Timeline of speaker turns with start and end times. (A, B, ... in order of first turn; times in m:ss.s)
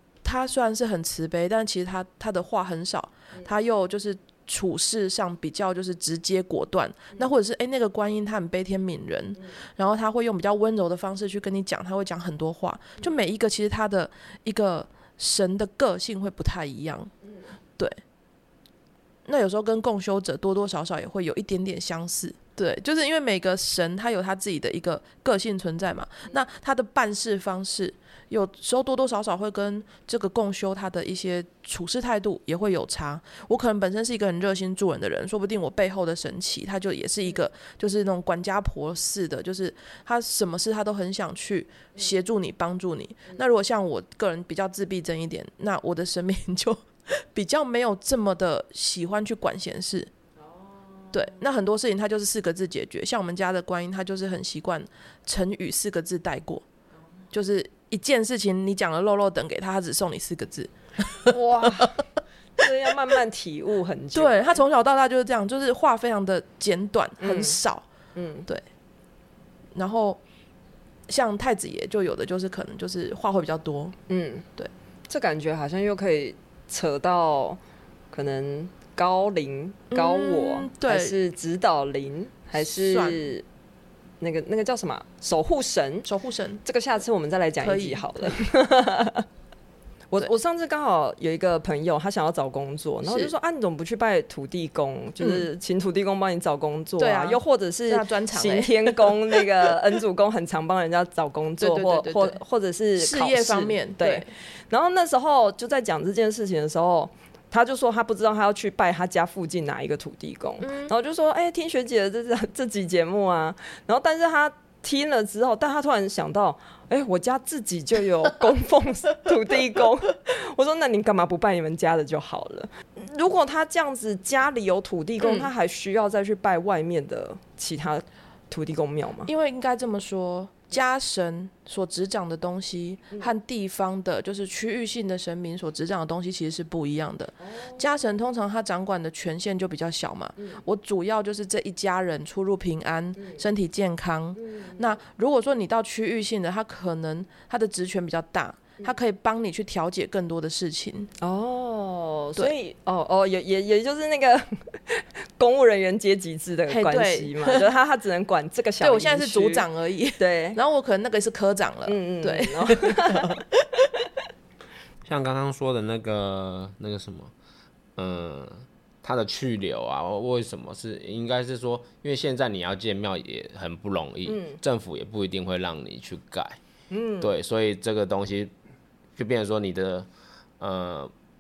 0:00.2-0:17.1 A
0:19.3-0:50.1 A
0:51.1-0:56.6 A
0:57.3-1:01.9 A
1:01.3-1:02.0 B
1:02.6-1:04.6 B
1:04.1-1:07.9 A
1:07.2-1:07.6 B
1:08.2-1:08.5 B
1:09.8-1:10.2 A
1:11.1-1:14.0 A
1:14.1-1:14.5 B
1:15.1-1:17.6 B
1:18.1-1:23.4 B
1:19.9-1:21.2 A
1:22.6-1:23.2 A
1:24.2-1:26.1 B
1:26.0-1:26.6 A
1:26.6-1:29.3 B
1:27.6-1:28.4 A
1:30.1-2:09.3 B
1:33.0-1:33.3 A
1:35.2-1:35.5 A
1:37.0-1:39.4 A
1:41.6-1:42.4 A
1:43.0-1:44.3 A
1:50.6-1:50.9 A
2:05.2-2:05.5 A
2:09.2-2:31.1 A
2:17.4-2:17.9 B
2:24.4-2:24.8 B
2:31.2-2:39.7 B
2:36.7-2:37.6 A
2:38.8-2:43.8 A
2:40.2-2:40.6 B
2:41.9-2:43.4 B
2:45.0-2:47.3 C
2:48.0-2:56.6 C
2:54.3-2:54.6 B
2:56.9-2:57.3 B
2:57.2-2:58.5 C
2:59.2-3:00.1 C
3:00.6-3:01.1 C